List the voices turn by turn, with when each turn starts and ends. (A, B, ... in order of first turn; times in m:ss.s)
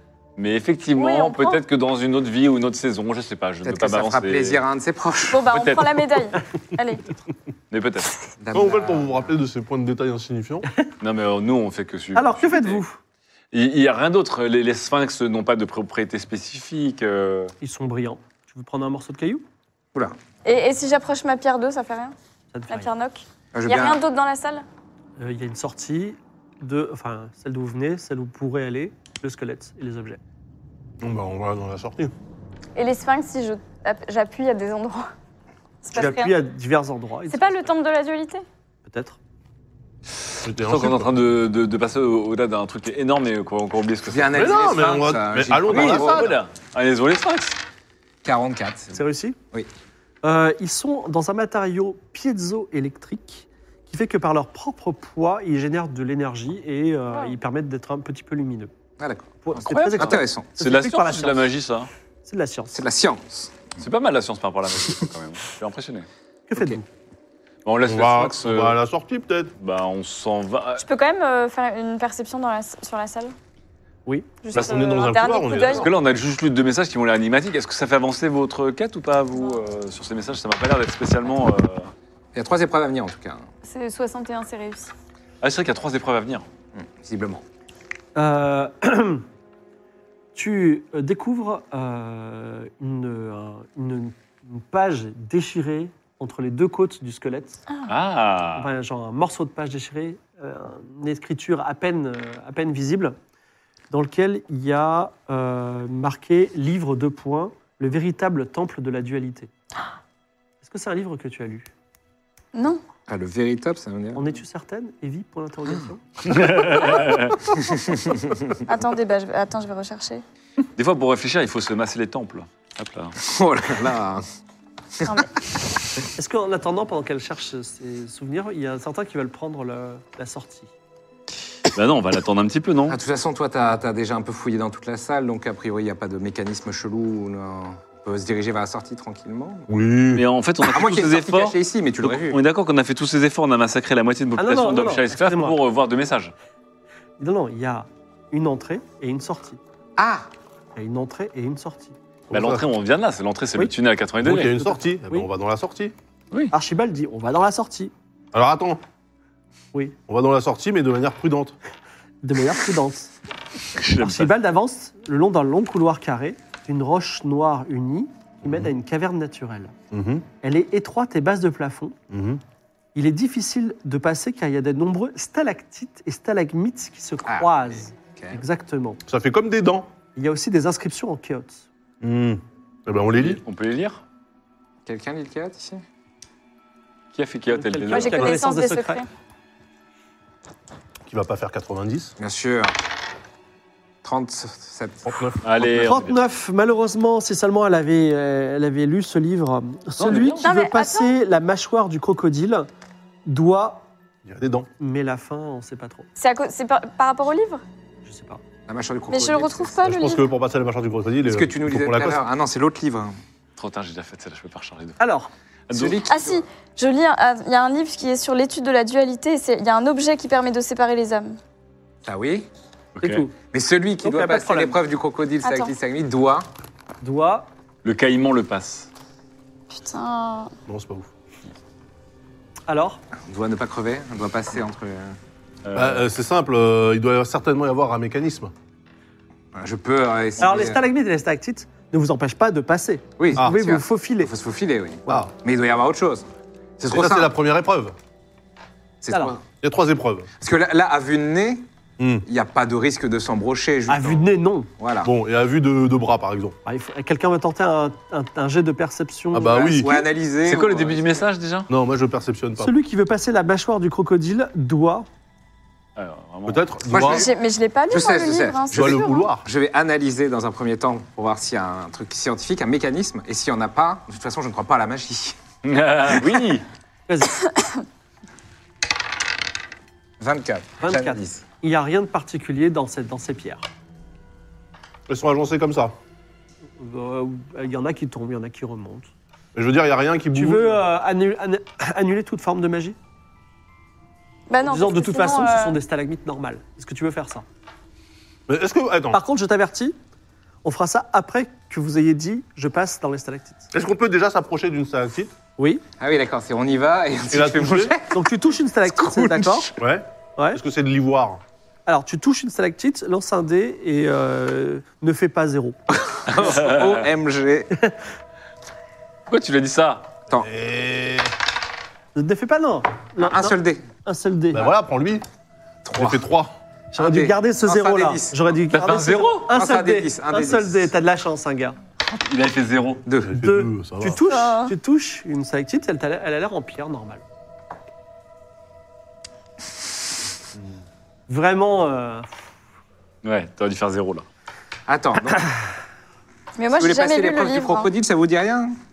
0:00.4-0:04.6 A
0:01.0-0:01.6 B
0:03.6-0:05.5 C
0:05.3-0:07.0 B
0:05.5-0:06.2 A
0:07.7-0:08.1 A
0:08.4-0:09.3 C
0:08.5-0:10.7 D
0:11.0-0:12.8 A
0:12.1-0:13.0 E
0:13.5-0:17.5 A
0:17.6-0:19.4 E
0:20.4-0:22.1 B
0:22.5-0:22.9 E
0:22.7-0:24.6 B
0:23.5-0:24.0 C
0:25.2-0:30.2 E
0:31.0-0:32.1 D
0:32.8-0:35.1 B
0:35.8-0:36.4 B
0:35.9-0:37.7 E
0:37.3-0:38.4 B
0:38.8-0:39.2 E
0:40.4-0:41.2 D
0:40.6-0:44.6 A
0:44.0-0:46.3 C
0:44.3-0:46.4 D
0:45.7-0:47.6 A
0:48.2-0:49.0 C
0:48.9-0:49.4 E
0:50.2-0:58.7 E
0:57.1-0:57.4 B
0:59.0-1:00.5 C
0:59.4-1:01.5 E
0:59.6-1:01.9 A
1:02.2-1:02.8 E
1:02.7-1:03.6 C
1:03.8-1:06.1 A
1:06.5-1:06.8 E
1:07.6-1:08.8 A
1:07.8-1:09.5 D
1:09.6-1:10.8 A
1:10.8-1:13.3 B
1:14.0-1:14.3 E
1:14.4-1:15.9 B
1:14.5-1:15.9 D
1:15.7-1:21.9 A
1:22.3-1:23.4 C
1:23.6-1:24.9 B
1:25.4-1:26.4 A
1:26.8-1:27.4 C
1:28.1-1:29.2 E
1:30.3-1:37.6 E
1:37.9-1:38.7 A
1:38.5-1:43.2 E
1:43.9-1:49.5 E
1:50.6-1:51.7 E
1:52.5-1:52.8 B
1:53.1-1:54.3 C
1:54.1-1:56.0 E
1:56.2-1:57.4 A
1:57.6-1:58.6 C
1:58.7-2:00.2 B
2:00.8-2:03.2 A
2:03.2-2:04.2 C
2:06.2-2:10.7 E
2:11.7-2:13.0 A
2:12.9-2:19.7 C
2:19.7-2:20.2 D
2:20.1-2:26.3 A
2:20.7-2:22.4 C
2:24.4-2:25.6 E
2:27.2-2:29.6 E
2:30.0-2:30.3 C
2:30.7-2:32.0 E
2:32.3-2:32.7 D
2:32.3-2:34.6 A
2:34.2-2:35.9 D
2:34.6-2:35.3 E
2:36.5-2:37.9 E
2:38.3-2:38.8 D
2:40.1-2:41.6 D
2:42.2-2:43.1 E
2:43.7-2:44.3 A
2:44.0-2:49.7 E
2:48.4-2:48.7 D
2:49.9-2:50.2 D
2:50.4-2:52.0 E
2:52.1-2:52.4 D
2:52.9-2:59.0 E
2:57.3-2:58.4 C
2:59.1-2:59.9 D
3:00.2-3:01.6 E
3:02.0-3:03.4 D
3:03.1-3:04.0 A
3:04.8-3:05.8 C
3:07.1-3:08.4 A
3:07.5-3:09.0 E
3:07.9-3:09.1 B
3:11.0-3:12.1 D
3:12.2-3:12.7 C
3:14.0-3:15.1 C
3:15.0-3:15.4 D
3:15.4-3:16.2 A
3:15.6-3:22.7 E
3:20.0-3:20.5 A
3:20.4-3:21.1 B
3:23.2-3:23.9 E
3:24.2-3:24.7 D
3:24.8-3:26.1 E
3:26.2-3:27.6 B
3:28.0-3:28.4 E
3:28.7-3:29.8 C
3:29.1-3:30.3 B
3:29.8-3:32.2 D
3:31.2-3:33.1 C
3:33.6-3:35.0 A
3:35.0-3:35.3 E
3:35.7-3:36.0 A
3:35.7-3:36.4 C
3:36.1-3:41.4 B
3:42.0-3:42.5 C
3:43.0-3:43.2 A
3:43.0-3:43.3 E
3:43.5-3:46.5 C
3:44.0-3:44.8 E
3:45.4-3:45.7 B
3:47.0-3:47.5 E
3:47.8-3:48.9 A
3:49.7-3:50.5 B
3:50.7-3:51.1 D
3:52.7-3:53.0 E
3:53.3-3:55.2 C
3:55.6-3:56.0 A
3:55.7-3:58.5 D
3:59.5-4:00.8 C
4:00.4-4:04.3 E
4:03.2-4:06.3 C
4:06.8-4:07.3 C
4:06.9-4:07.9 D
4:09.0-4:09.4 C
4:09.1-4:09.4 E
4:09.5-4:10.3 D
4:10.4-4:11.6 C
4:12.0-4:12.2 D
4:12.2-4:14.2 C
4:13.9-4:14.7 E
4:14.8-4:15.1 C
4:15.0-4:16.6 D
4:16.6-4:20.0 E
4:19.3-4:19.9 D
4:19.6-4:21.2 C
4:20.4-4:21.7 A
4:21.7-4:22.7 D
4:22.6-4:25.1 E
4:26.0-4:26.7 A
4:26.4-4:27.3 D
4:26.9-4:27.3 C
4:27.1-4:29.3 B
4:27.9-4:35.4 C
4:28.7-4:29.4 D
4:35.6-4:36.6 A
4:37.1-4:37.4 E
4:40.2-4:41.4 C
4:40.8-4:43.7 E
4:45.1-4:45.9 D
4:46.8-4:49.1 E
4:49.5-4:50.8 D
4:50.3-4:53.0 E
4:54.5-4:55.8 B
4:54.6-4:57.4 E
4:58.5-4:59.2 D
4:59.1-5:00.0 E
5:00.6-5:03.7 E
5:03.7-5:05.3 D
5:05.6-5:05.8 E
5:06.0-5:08.2 C
5:07.3-5:07.9 D
5:08.1-5:09.7 E
5:08.9-5:09.7 C
5:09.8-5:11.4 D
5:11.8-5:15.8 E
5:16.0-5:17.7 C
5:16.4-5:17.0 A
5:19.3-5:20.1 A
5:20.3-5:21.3 D
5:22.1-5:24.7 E
5:23.2-5:23.9 C
5:24.5-5:25.2 D
5:25.8-5:26.2 C
5:25.9-5:26.5 D
5:26.9-5:28.6 C
5:26.9-5:31.8 E
5:28.7-5:29.5 A
5:29.5-5:30.9 C
5:32.0-5:33.0 A
5:33.0-5:33.3 C
5:33.2-5:34.2 D
5:33.4-5:37.2 E
5:34.3-5:34.7 B
5:41.3-5:42.3 E
5:43.2-5:44.2 A
5:44.9-5:45.5 C
5:46.6-5:47.9 B
5:46.7-5:48.7 C